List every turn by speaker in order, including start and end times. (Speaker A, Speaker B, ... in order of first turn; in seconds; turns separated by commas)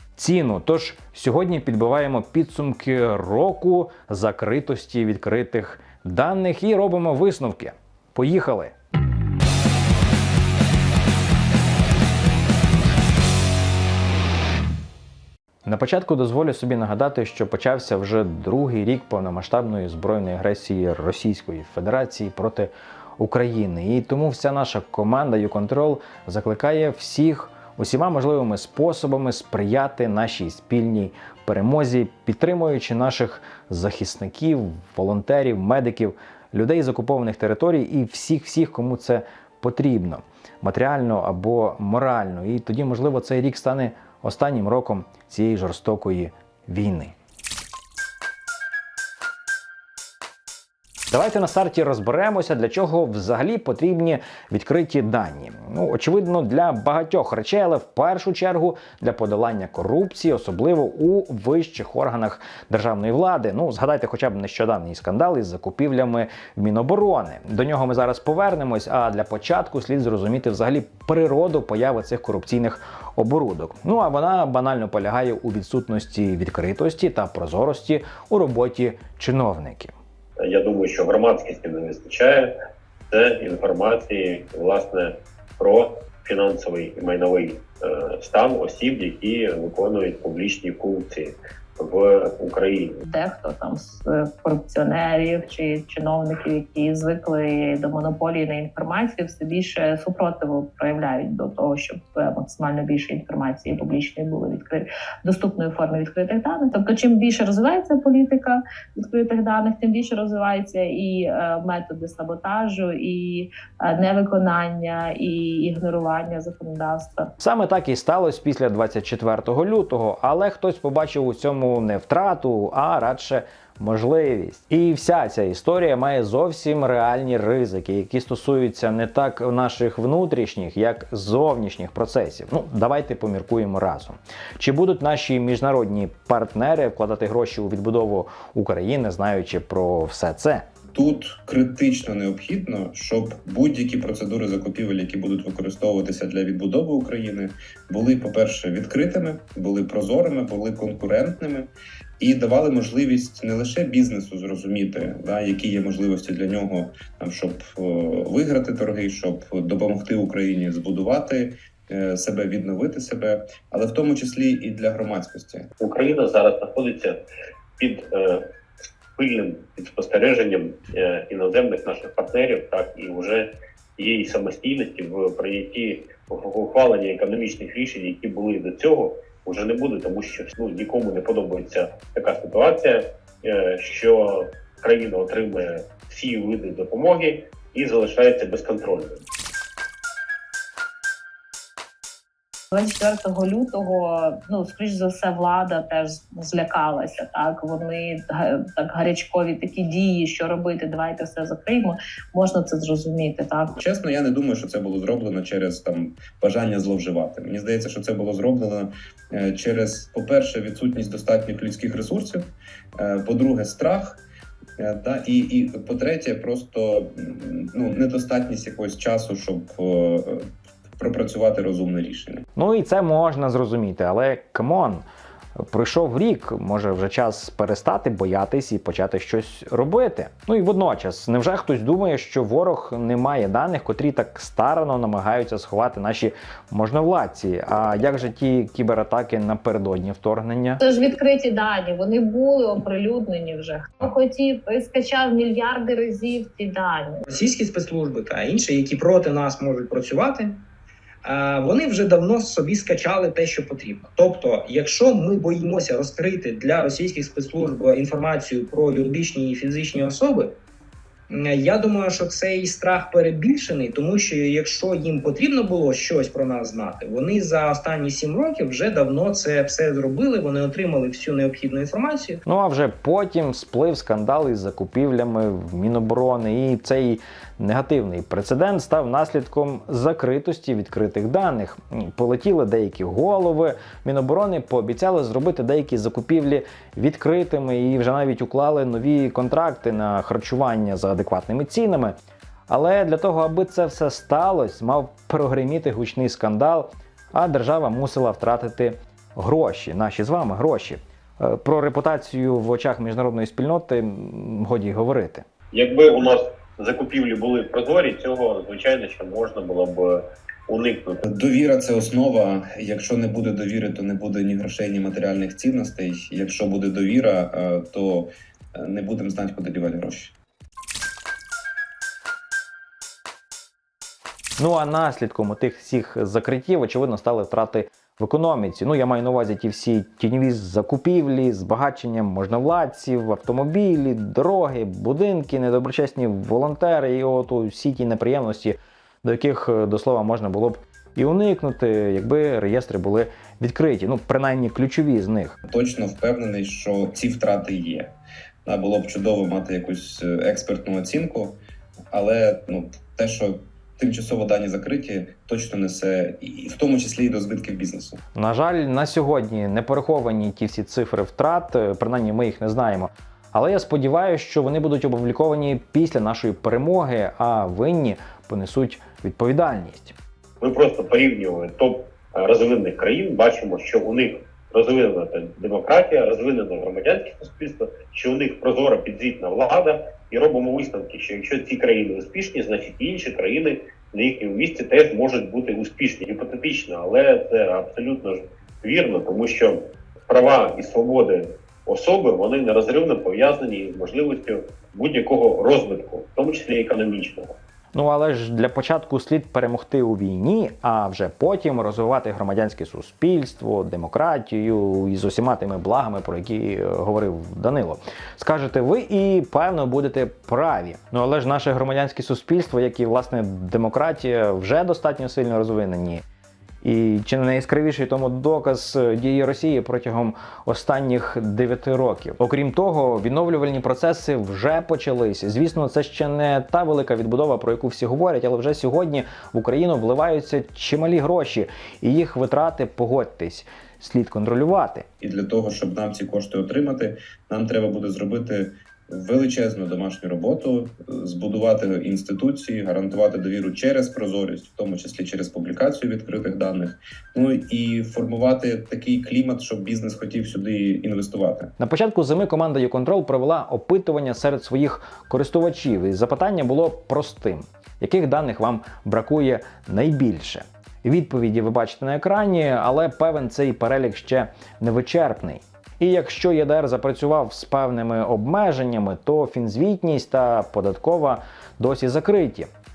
Speaker A: 0.2-8.7, Speaker A: 15.7-47.1, Speaker A: 51.1-79.9, Speaker B: 80.4-82.5, Speaker B: 83.1-92.9, Speaker C: 93.0-117.3, Speaker A: 117.4-140.6, Speaker D: 140.9-165.7, Speaker B: 165.8-167.2, Speaker B: 167.8-168.5, Speaker B: 169.2-189.2, Speaker C: 192.7-203.8, Speaker D: 203.8-214.2, Speaker D: 214.8-222.4, Speaker A: 222.6-225.1, Speaker A: 225.6-240.8, Speaker C: 240.8-247.2, Speaker E: 247.3-250.7, Speaker E: 251.2-260.6, Speaker E: 261.3-272.4, Speaker A: 272.5-292.1, Speaker A: 292.7-305.4, Speaker B: 305.7-311.2, Speaker D: 311.3-320.4, Speaker A: 324.6-345.6, Speaker D: 345.7-348.1, Speaker D: 348.6-351.6, Speaker D: 352.1-358.2, Speaker A: 358.4-370.2, Speaker B: 370.6-397.6, Speaker A: 397.9-416.2, Speaker A: 416.8-435.1, Speaker D: 435.2-451.7, Speaker A: 451.8-472.7